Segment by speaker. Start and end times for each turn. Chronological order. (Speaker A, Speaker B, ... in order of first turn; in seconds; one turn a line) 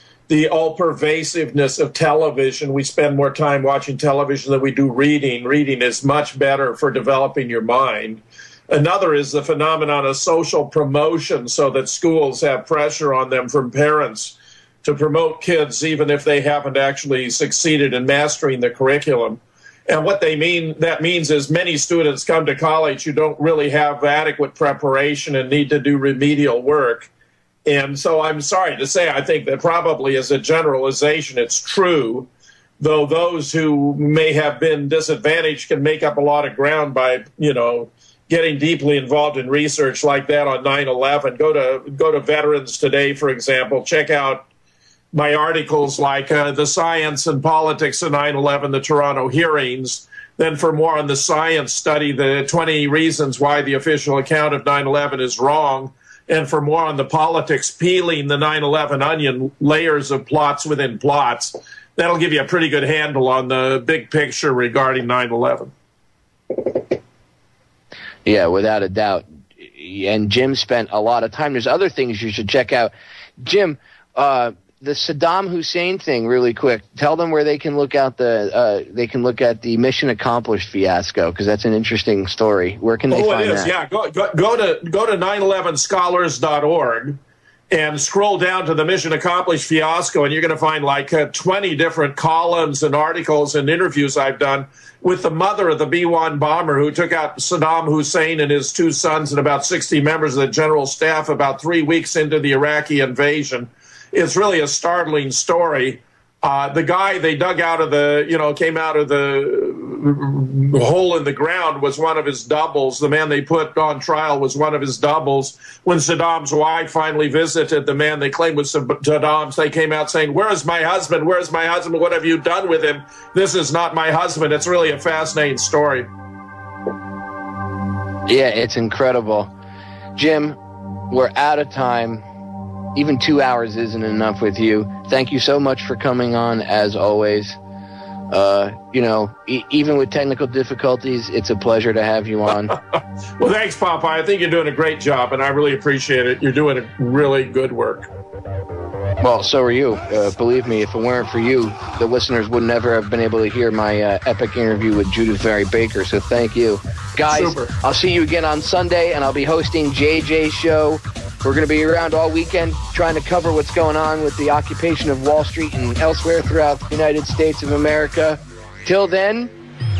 Speaker A: 0.3-27.1
Speaker A: 27.6-32.3
Speaker A: 32.8-44.4
Speaker A: 45.1-65.7
Speaker B: 68.2-83.7
Speaker A: 83.1-87.2
Speaker A: 87.7-126.1
Speaker B: 128.3-129.5
Speaker B: 130.1-130.6
Speaker B: 131.1-132.2
Speaker B: 132.9-137.6
Speaker B: 138.3-142.7
Speaker A: 143.4-148.1
Speaker B: 149.2-169.5
Speaker A: 157.3-157.7